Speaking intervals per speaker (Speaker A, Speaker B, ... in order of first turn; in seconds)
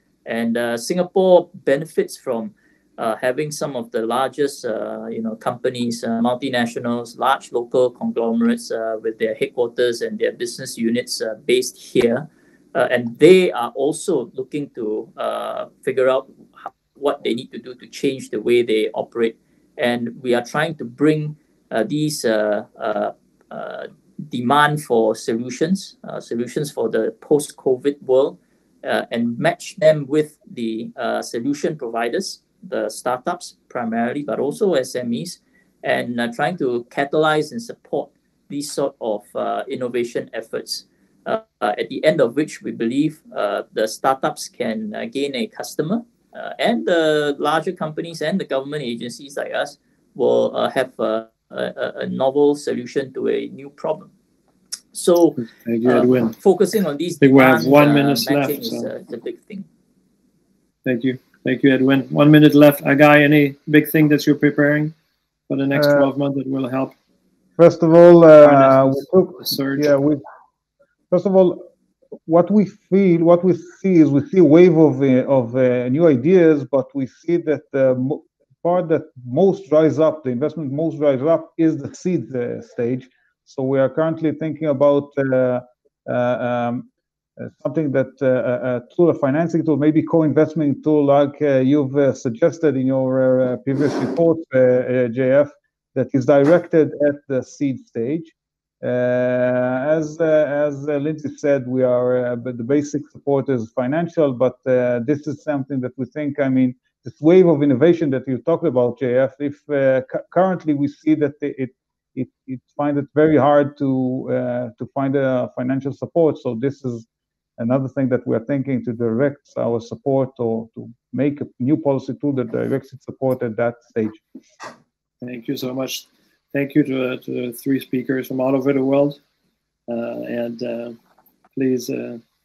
Speaker A: 0.2-54.1, 54.9-59.7
Speaker B: 55.4-56.3, 57.2-58.9, 60.8-64.9, 65.5-67.0, 68.4-69.9, 125.2-129.2, 129.9-130.9, 131.5-132.2
Speaker C: 65.7-66.1, 67.6-70.2, 71.1-71.6, 72.3-86.9, 87.4-117.0, 117.6-124.2